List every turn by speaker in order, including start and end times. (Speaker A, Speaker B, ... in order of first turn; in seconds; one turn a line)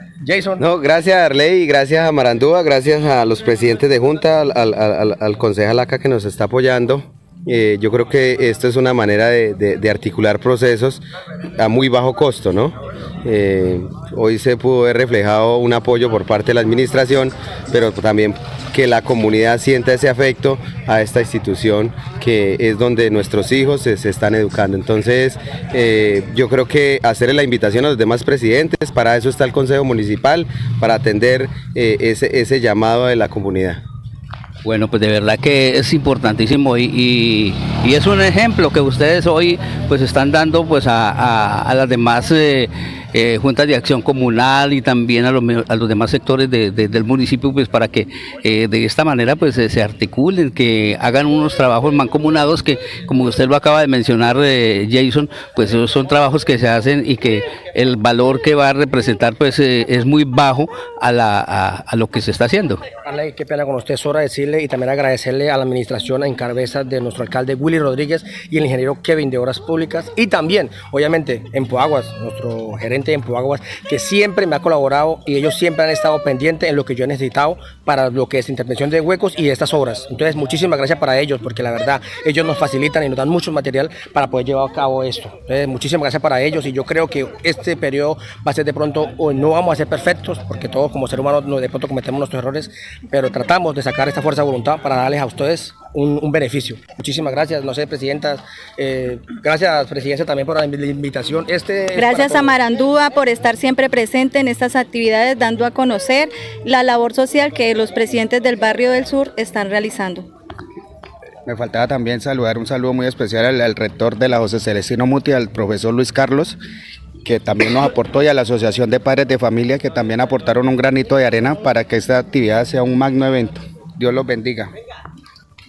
Speaker A: 0.2-0.6
Speaker B: 0.6-11.0
Speaker B: 11.6-33.8
Speaker C: 34.6-62.8
Speaker A: 63.0-102.5
Speaker D: 101.9-110.3
Speaker E: 111.5-116.6
Speaker E: 117.2-124.7